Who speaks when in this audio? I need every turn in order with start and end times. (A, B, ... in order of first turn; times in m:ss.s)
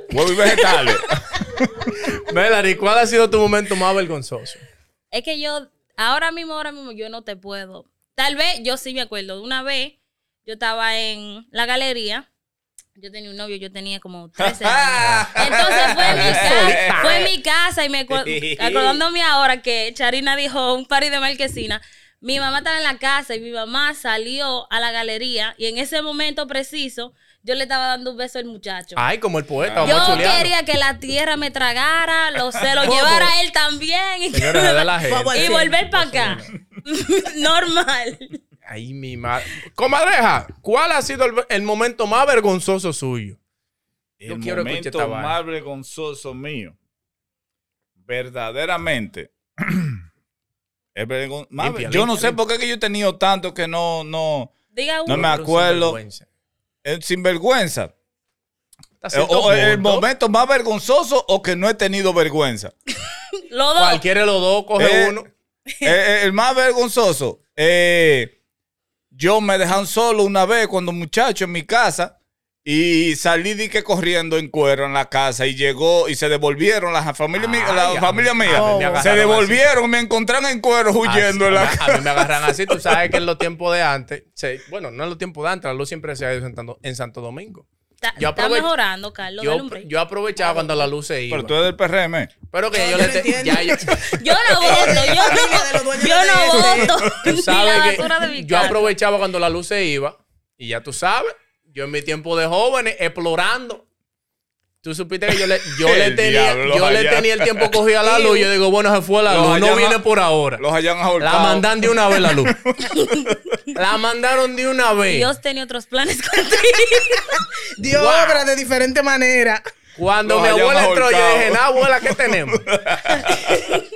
0:00.1-0:01.8 A
0:02.1-0:04.6 B
0:05.1-0:12.3 C
0:13.0-0:29.1 C
0:14.4-0:17.3 A
0:16.0-0:17.3 B
0:18.1-0:19.0 A
0:29.0-0:30.5 B
0:29.6-0:30.5 A
0:29.8-0:38.4 C
0:32.8-0:33.3 D
0:32.9-0:33.1 B
0:34.3-0:36.5 B
0:35.0-0:35.8 D
0:38.7-0:43.4 B
0:44.2-0:46.8 A
0:44.2-0:45.4 B
0:48.1-0:50.0 A
0:51.0-0:54.5 A
0:51.6-0:52.4 B
0:54.7-0:55.2 C
0:55.1-0:56.0 A
0:55.1-0:56.3 B
0:56.8-0:57.9 A
0:59.0-1:00.1 B
0:59.1-1:02.7 A
1:03.5-1:04.0 C
1:03.8-1:05.3 B
1:04.8-1:05.2 A
1:05.8-1:08.3 A
1:09.1-1:23.2 A
1:17.4-1:19.6 B
1:18.5-1:19.1 D
1:21.0-1:28.7 B
1:28.0-1:29.9 C
1:29.4-1:31.6 B
1:30.4-1:30.9 D
1:31.3-1:32.3 A
1:32.5-1:34.0 B
1:32.7-1:33.9 D
1:34.0-1:38.9 C
1:34.5-1:36.9 D
1:36.7-1:37.3 A
1:37.2-1:43.8 B
1:44.8-1:50.6 B
1:45.8-1:47.8 A
1:48.0-1:48.5 D
1:49.3-1:50.0 A
1:50.6-1:53.5 A
1:51.2-1:52.6 B
1:53.0-1:53.2 C
1:53.7-1:55.3 B
1:55.1-1:57.4 C
1:57.0-1:59.6 D
1:57.9-1:58.5 B
2:00.0-2:02.6 B
2:00.2-2:03.8 A